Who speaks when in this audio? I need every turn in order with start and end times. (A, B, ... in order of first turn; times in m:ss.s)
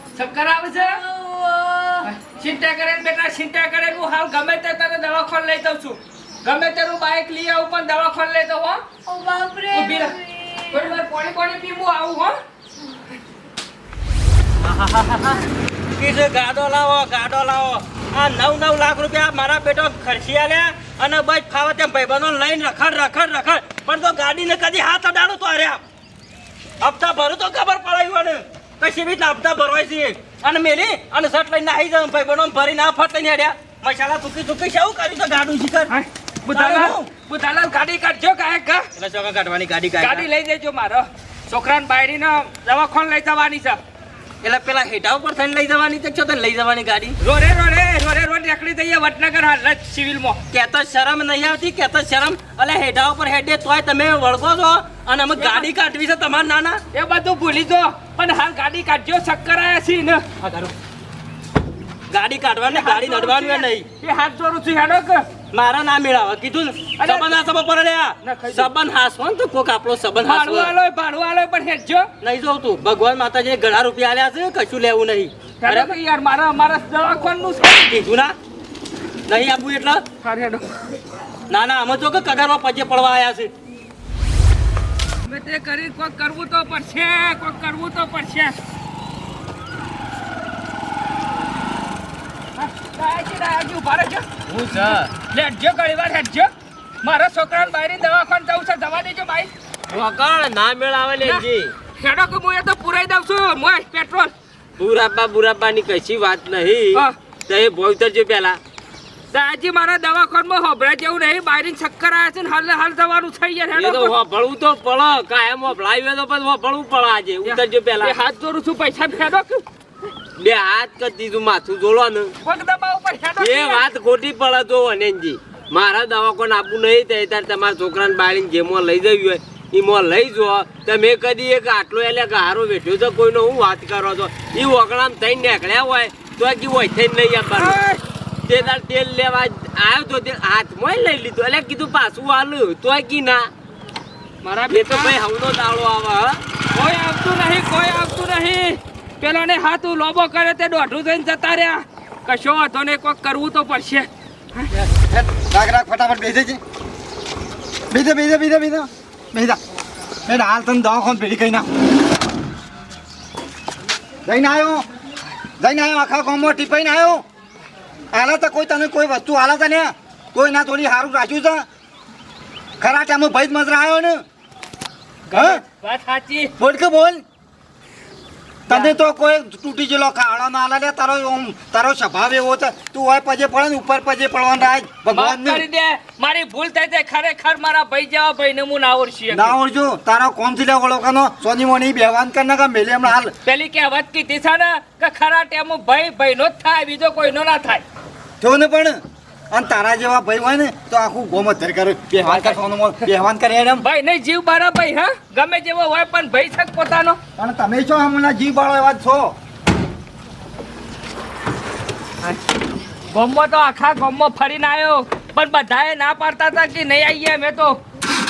0:00.2-0:01.0 A
0:00.7-0:02.1 B
0:02.0-0:08.8 A
0:09.1-0:11.0 B
0:09.7-0:10.2 A
0:10.7-0:12.3 A
0:14.6-0:15.4 C
0:16.0-0:25.8 C
0:26.8-0:35.9 C
0:35.9-0:38.9 A
0:36.5-0:37.1 C
0:39.0-0:40.3 C
0:40.0-0:43.8 A
0:44.4-0:47.2 C
0:47.2-0:50.4 A
0:50.5-0:56.8 C
0:55.4-0:55.7 A
0:56.9-1:00.2 A
1:00.4-1:00.7 C
1:02.1-1:03.9 C
1:02.7-1:05.3 A
1:05.5-1:10.7 C
1:07.0-1:07.4 A
1:08.2-1:08.7 A
1:10.2-1:12.1 A
1:12.2-1:16.0 C
1:15.6-1:17.9 A
1:17.9-1:18.4 C
1:19.3-1:20.0 C
1:20.2-1:20.8 A
1:21.5-1:23.5 C
1:25.2-1:28.6 A
1:32.6-1:34.3 A
1:34.5-1:35.1 D
1:35.2-1:36.5 A
1:37.0-1:39.5 A
1:39.9-1:41.7 D
1:42.0-1:44.3 A
1:44.8-1:48.6 D
1:49.3-1:54.2 A
1:53.7-1:58.2 D
1:57.4-1:59.6 A
2:00.4-2:02.4 D
2:02.4-2:03.8 A
2:03.4-2:17.8 D
2:17.6-2:18.0 A
2:18.5-2:23.5 D
2:24.4-2:25.2 A
2:24.7-2:26.4 D
2:26.7-2:34.7 A
2:34.7-2:36.6 E
2:37.9-2:39.6 E
2:40.3-2:41.7 E
2:44.2-2:44.9 E
2:45.6-2:47.2 E
2:48.1-2:51.6 E
2:52.8-2:54.2 E
2:55.3-2:56.5 A
2:55.3-2:55.6 E
2:56.6-2:57.2 E
2:58.7-2:58.9 A
2:58.7-3:05.6 E
3:05.1-3:09.6 A
3:09.3-3:13.3 E
3:13.4-3:17.8 A
3:18.4-3:23.9 E
3:22.3-3:22.6 A
3:23.8-3:27.2 A
3:27.4-3:29.4 E
3:33.1-3:37.8 A